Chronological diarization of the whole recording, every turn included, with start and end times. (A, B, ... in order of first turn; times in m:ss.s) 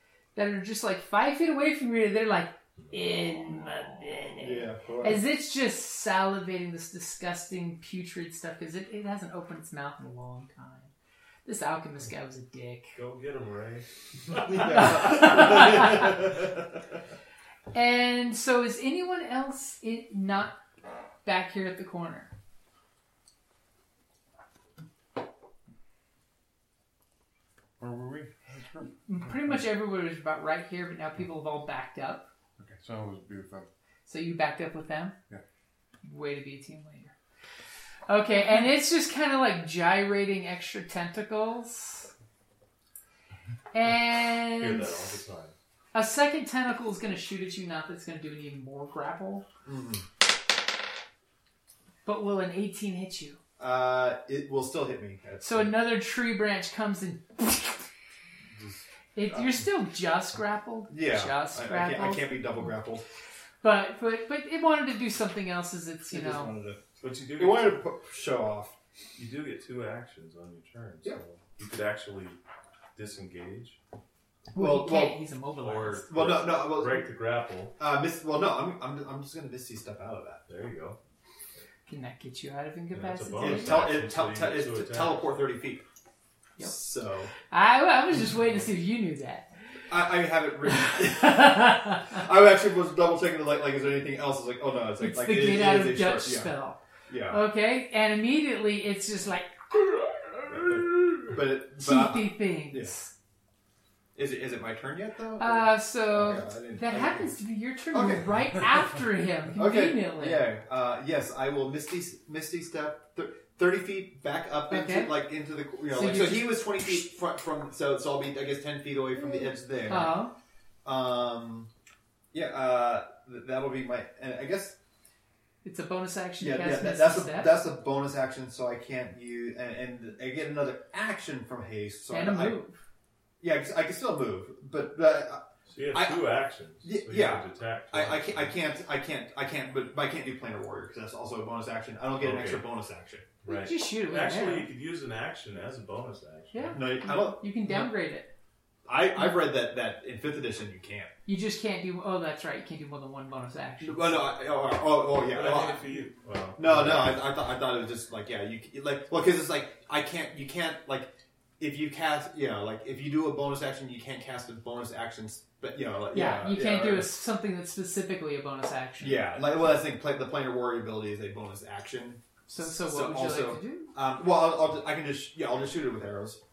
0:00.3-0:10.9 A
0:02.8-0:04.1 B
0:04.4-0:05.2 C
0:11.4-0:12.9 A
0:12.9-0:16.2 B
0:14.5-0:16.3 C
0:14.6-0:16.1 A
0:17.7-0:20.6 A
0:21.2-0:22.3 A
0:27.8-0:29.6 D
0:29.0-0:32.3 A
0:32.6-0:33.7 D
0:34.0-0:35.2 A
0:36.0-0:37.1 A
0:38.1-0:42.1 A
0:43.7-0:45.2 A
0:44.6-0:45.5 B
0:45.9-0:49.5 A
0:49.6-0:50.0 C
0:52.0-0:53.4 A
0:53.6-0:55.8 C
0:55.4-0:57.9 A
0:58.5-0:59.7 C
0:59.1-1:02.7 A
1:00.9-1:03.0 C
1:03.6-1:06.5 A
1:06.1-1:06.8 C
1:07.0-1:07.9 B
1:07.3-1:08.7 C
1:09.2-1:12.4 B
1:12.9-1:13.8 B
1:14.5-1:15.2 C
1:14.5-1:16.1 A
1:15.6-1:17.8 B
1:16.1-1:17.1 C
1:17.8-1:20.4 C
1:20.5-1:21.0 B
1:21.9-1:23.8 A
1:22.9-1:25.2 B
1:23.3-1:25.8 C
1:26.6-1:27.3 C
1:27.5-1:29.5 A
1:29.9-1:36.5 C
1:30.7-1:32.1 A
1:35.0-1:43.1 A
1:37.1-1:37.4 C
1:40.5-1:43.0 C
1:44.1-1:47.4 C
1:45.4-1:50.5 A
1:47.9-1:48.5 C
1:49.6-2:00.2 C
1:54.7-1:55.3 A
1:55.9-1:57.0 A
1:59.9-2:00.3 A
2:00.8-2:01.7 C
2:02.3-2:04.7 C
2:05.6-2:07.6 A
2:06.4-2:12.6 C
2:12.1-2:12.8 A
2:13.4-2:23.3 C
2:15.7-2:18.5 B
2:22.2-2:22.7 B
2:23.4-2:26.6 B
2:23.4-2:24.7 A
2:26.5-2:28.3 A
2:26.7-2:27.9 C
2:28.8-2:31.1 C
2:31.2-2:34.2 A
2:33.8-2:35.8 C
2:35.2-2:37.2 B
2:36.6-2:47.1 C
2:46.1-2:49.2 A
2:49.0-2:56.4 C
2:52.5-2:53.9 A